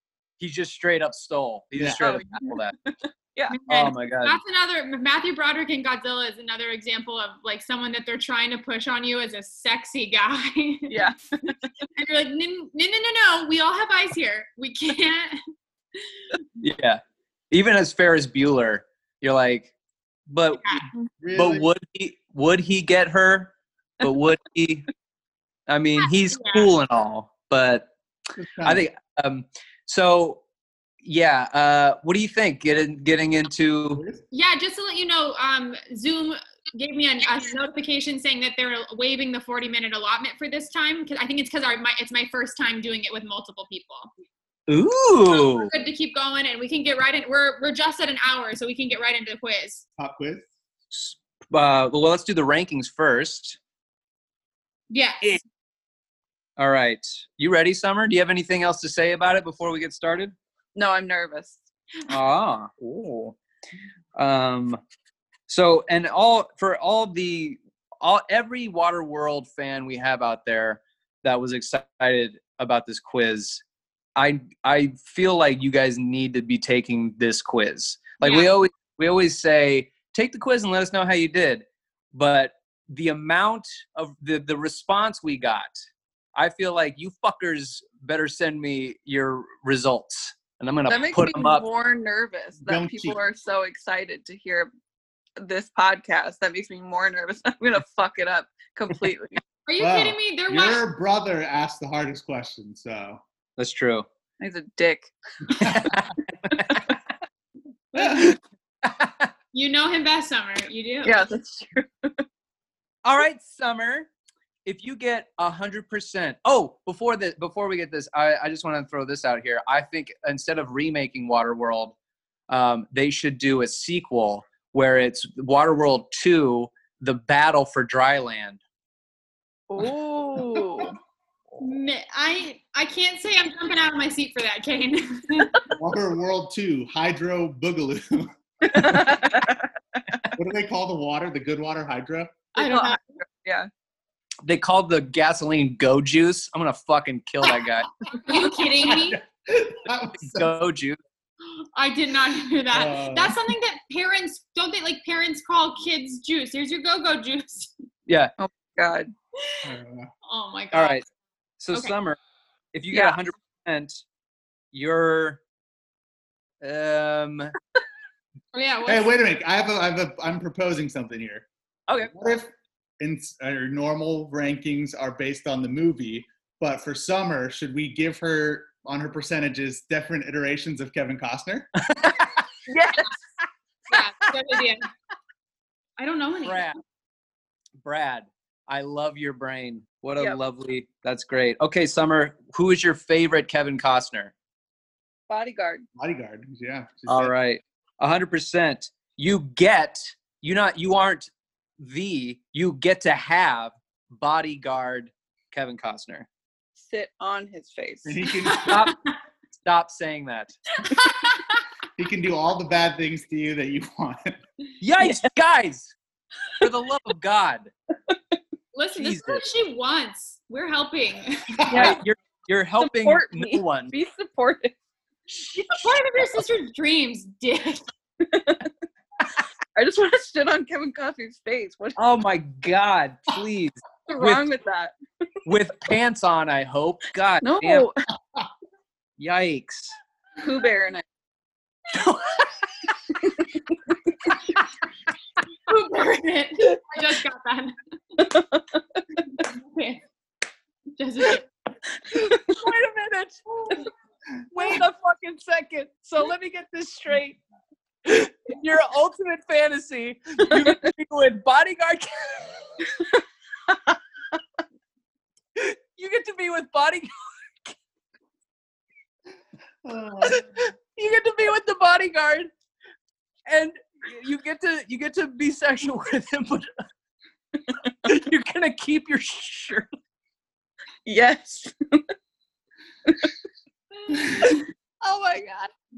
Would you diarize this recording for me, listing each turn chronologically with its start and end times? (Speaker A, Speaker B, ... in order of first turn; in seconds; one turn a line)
Speaker A: 0.4-2.7
Speaker B: 1.7-2.0
Speaker C: 2.0-3.6
Speaker D: 3.5-11.0
Speaker A: 3.7-4.4
Speaker C: 10.9-11.7
Speaker D: 11.9-15.4
Speaker A: 16.6-19.7
Speaker A: 20.3-20.6
Speaker B: 21.2-21.7
Speaker A: 21.3-24.9
Speaker A: 25.7-27.9
Speaker D: 26.0-26.7
Speaker B: 28.4-28.9
Speaker A: 28.6-30.4
Speaker A: 31.0-34.0
Speaker B: 33.9-34.2
Speaker D: 34.3-44.1
Speaker A: 44.7-45.7
Speaker D: 45.3-49.8
Speaker B: 50.0-50.5
Speaker A: 50.9-53.6
Speaker D: 54.9-55.4
Speaker A: 56.6-60.3
Speaker C: 60.7-61.6
Speaker A: 62.1-63.4
Speaker A: 64.2-64.8
Speaker A: 65.5-73.6
Speaker A: 74.2-85.8
Speaker D: 78.2-78.5
Speaker A: 86.3-91.7
Speaker C: 90.9-94.7
Speaker B: 92.6-93.2
Speaker C: 95.4-99.4
Speaker D: 99.7-100.8
Speaker B: 99.8-103.2
Speaker A: 103.6-104.0
Speaker C: 104.4-105.9
Speaker A: 105.6-106.8
Speaker A: 107.9-109.3
Speaker B: 108.0-108.3
Speaker D: 109.5-111.2
Speaker C: 111.0-112.2
Speaker A: 113.0-114.1
Speaker A: 114.6-121.9
Speaker A: 122.5-128.6
Speaker C: 129.7-130.9
Speaker D: 131.6-135.7
Speaker B: 135.7-139.1
Speaker C: 138.6-139.7
Speaker B: 140.3-142.3
Speaker D: 142.6-143.0
Speaker C: 142.6-143.7
Speaker A: 144.4-147.9
Speaker D: 148.1-149.2
Speaker B: 148.8-150.5
Speaker A: 150.2-151.0
Speaker D: 151.5-157.7
Speaker B: 152.7-153.5
Speaker A: 158.1-158.3
Speaker C: 158.4-159.1
Speaker B: 159.6-160.1
Speaker D: 160.2-161.0
Speaker A: 160.7-161.0
Speaker A: 161.6-162.2
Speaker A: 162.7-164.0
Speaker C: 162.9-163.2
Speaker A: 164.7-165.4
Speaker A: 166.6-167.5
Speaker D: 168.5-169.1
Speaker B: 168.8-171.4
Speaker B: 172.0-181.7
Speaker A: 181.9-182.3
Speaker C: 182.7-183.1
Speaker D: 183.9-184.9
Speaker D: 186.0-186.7
Speaker A: 186.4-186.8
Speaker A: 187.8-194.3
Speaker C: 195.3-195.8
Speaker B: 196.0-197.3
Speaker A: 197.1-206.3
Speaker C: 206.8-208.2
Speaker B: 208.0-208.8
Speaker A: 208.6-208.9
Speaker A: 209.6-210.5
Speaker B: 212.0-214.4
Speaker A: 214.8-215.9
Speaker A: 216.6-217.7
Speaker D: 218.7-221.8
Speaker A: 218.9-219.4
Speaker C: 221.7-222.0
Speaker A: 221.7-223.9
Speaker C: 222.8-224.7
Speaker D: 225.5-227.8
Speaker C: 228.2-228.7
Speaker C: 229.7-232.0
Speaker A: 231.9-234.4
Speaker C: 234.1-234.9
Speaker A: 235.4-237.8
Speaker C: 237.4-238.0
Speaker A: 239.2-239.9
Speaker C: 240.4-241.0
Speaker A: 241.9-242.4
Speaker D: 245.7-247.8
Speaker C: 248.2-248.6
Speaker D: 249.4-250.0
Speaker D: 251.0-251.4
Speaker A: 252.1-253.9
Speaker A: 254.5-257.4
Speaker A: 258.0-262.5
Speaker A: 265.6-267.1
Speaker B: 269.8-270.4
Speaker A: 270.2-272.5
Speaker A: 273.5-276.7
Speaker A: 278.0-279.9
Speaker C: 281.1-282.0
Speaker C: 284.2-285.7